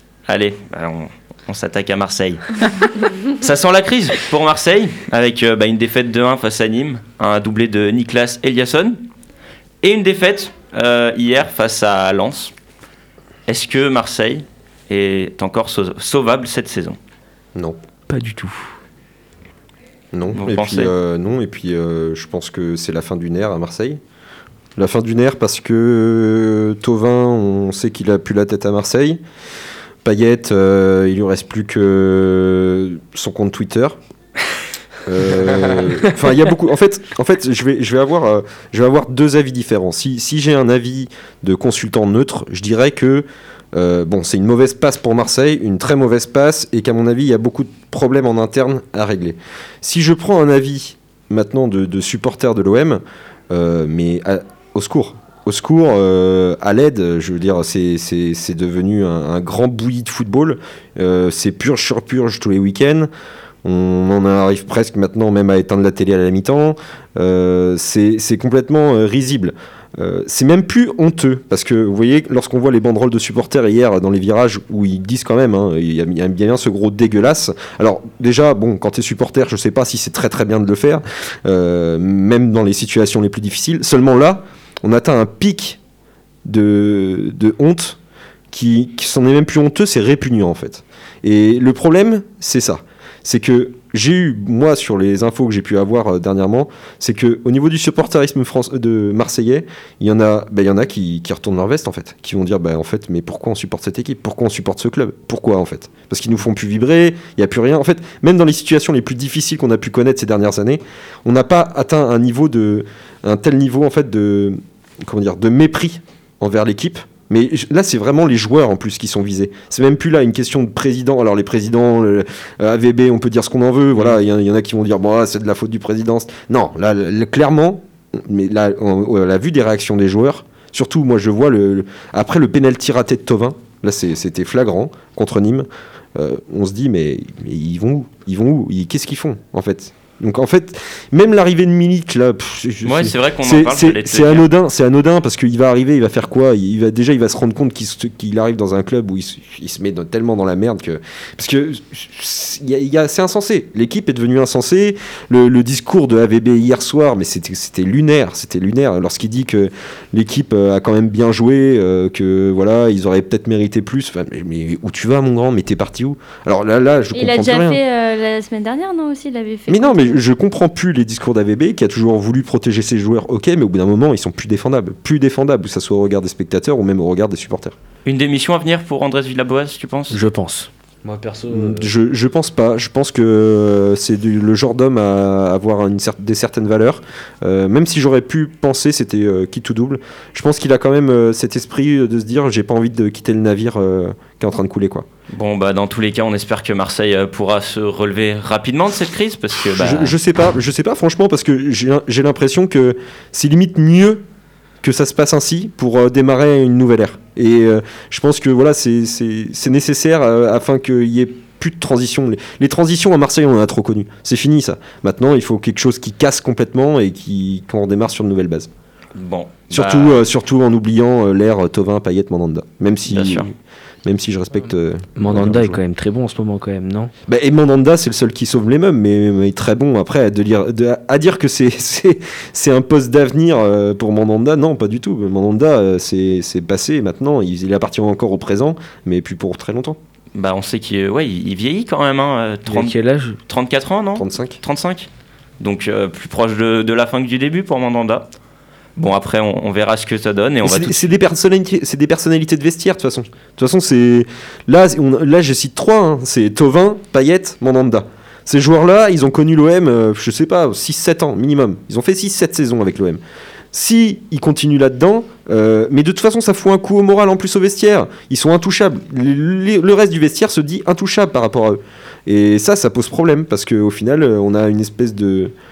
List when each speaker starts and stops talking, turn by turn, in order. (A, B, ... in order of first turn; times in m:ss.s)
0:00.3-0:09.0 A
0:09.8-0:12.5 A
0:13.5-0:17.0 A
0:18.1-0:18.7 B
0:20.1-0:24.0 C
0:20.3-0:20.9 A
0:24.8-0:29.2 C
0:30.0-0:34.0 C
0:35.0-1:03.1 C
1:03.6-1:25.8 C
1:26.4-1:28.0 C
1:28.5-2:47.8 C
2:22.8-2:24.5 A
2:47.1-2:50.2 D
2:49.7-2:57.8 C
2:58.0-3:00.2 A
3:00.1-3:01.9 B
3:01.5-3:15.1 C
3:15.3-3:20.1 A
3:19.7-3:24.2 C
3:24.8-3:38.7 C
3:39.2-3:40.2 A
3:39.7-3:43.5 C
3:43.1-3:43.5 A
3:44.0-3:45.8 C
3:45.2-3:47.1 B
3:47.3-4:00.0 C
4:00.4-4:03.0 A
4:02.7-4:03.4 B
4:03.5-4:05.1 A
4:04.2-4:04.6 C
4:05.6-4:08.3 A
4:09.0-4:11.2 A
4:10.6-4:23.2 C
4:23.7-4:35.5 C